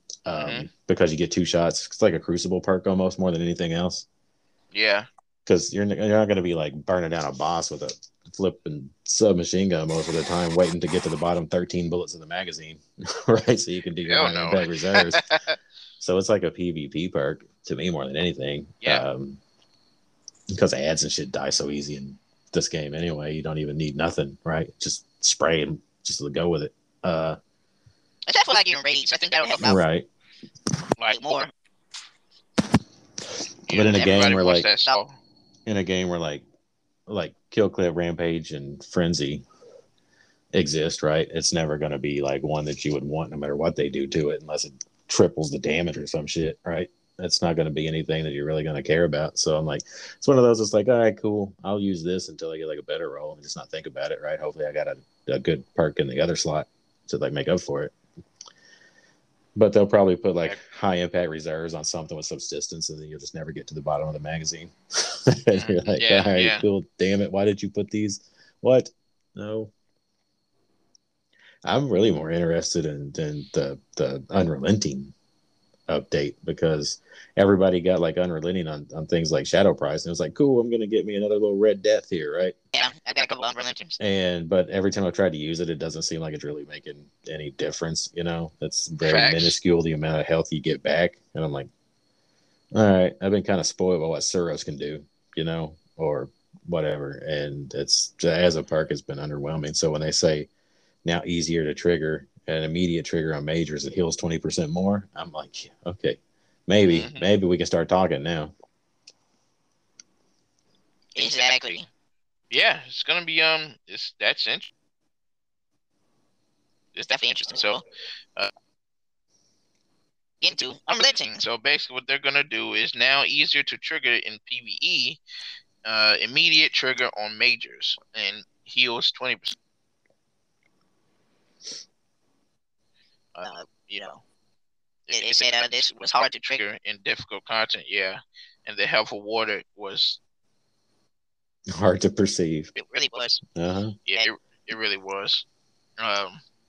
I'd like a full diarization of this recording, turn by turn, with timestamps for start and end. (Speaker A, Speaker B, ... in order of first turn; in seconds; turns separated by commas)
Speaker A: 0.2-4.0, Speaker B: 0.3-0.7, Speaker B: 4.7-5.1, Speaker A: 5.5-15.2, Speaker B: 14.1-15.5, Speaker A: 16.0-19.4, Speaker A: 20.5-27.4, Speaker C: 28.3-29.8, Speaker A: 29.6-30.1, Speaker B: 31.0-31.2, Speaker C: 31.1-31.5, Speaker B: 33.7-35.1, Speaker A: 33.7-34.7, Speaker A: 35.6-36.4, Speaker A: 37.1-39.4, Speaker A: 40.5-57.9, Speaker A: 59.5-69.7, Speaker B: 65.5-66.6, Speaker A: 71.6-75.1, Speaker A: 75.9-82.5, Speaker C: 82.7-83.9, Speaker A: 84.0-91.7, Speaker B: 89.0-89.5, Speaker A: 92.7-100.5, Speaker A: 101.0-108.5, Speaker B: 106.8-107.3, Speaker C: 111.2-111.8, Speaker B: 112.5-114.7, Speaker B: 117.0-117.8, Speaker C: 117.1-117.6, Speaker C: 120.4-121.4, Speaker B: 121.4-125.2, Speaker B: 125.8-129.6, Speaker B: 133.3-134.2, Speaker C: 133.4-134.0, Speaker B: 135.1-140.2, Speaker C: 135.1-136.6, Speaker A: 141.7-142.7, Speaker C: 142.8-143.4, Speaker A: 143.5-143.9, Speaker B: 144.1-145.4, Speaker B: 146.0-146.4